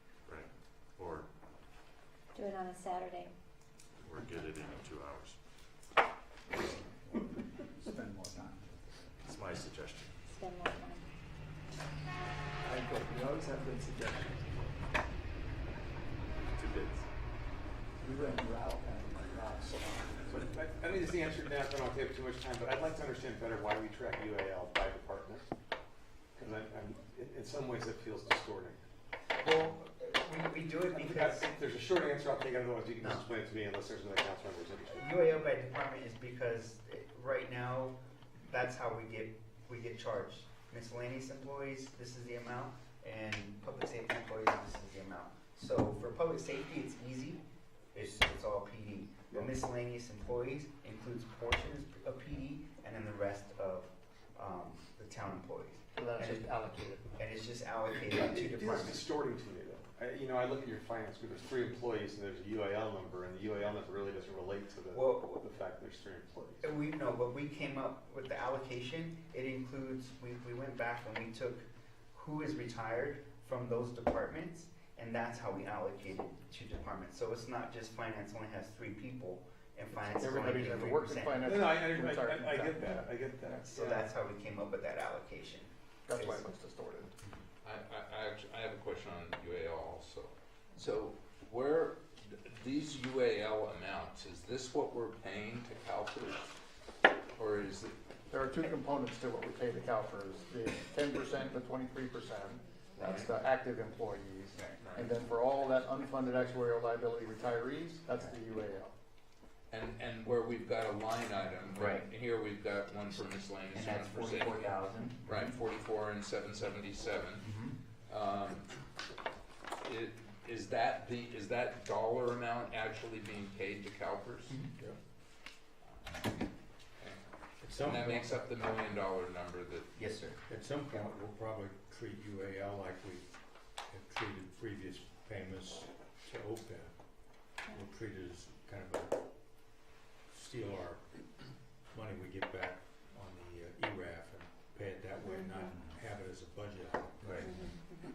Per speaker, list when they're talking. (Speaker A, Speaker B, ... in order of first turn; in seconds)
Speaker A: 0.3-1.3, 4.0-5.4, 9.2-10.1, 16.5-17.0
Speaker B: 2.3-3.3, 10.3-11.1, 145.2-145.7, 147.4-147.8
Speaker C: 6.5-9.1, 12.6-14.8, 18.0-20.3
Speaker D: 20.3-25.4, 26.4-28.8, 30.9-35.3, 58.1-66.7, 80.2-80.8, 81.4-84.1
Speaker E: 29.4-31.4, 33.0-33.2, 34.9-47.4, 47.9-56.5, 57.2-59.0, 64.9-65.4, 66.6-81.4, 83.5-86.4, 104.5-104.8, 111.7-112.1, 113.7-115.2, 129.9-130.4, 147.2-147.7
Speaker F: 56.0-57.1, 80.0-83.0, 86.1-87.1, 98.3-108.9
Speaker G: 87.6-96.6, 97.3-98.0, 103.0-103.3, 109.7-117.5, 118.1-118.7, 119.8-124.6, 127.0-129.9
Speaker H: 127.6-128.3, 130.4-137.0, 137.7-139.2, 140.3-141.1, 141.9-147.5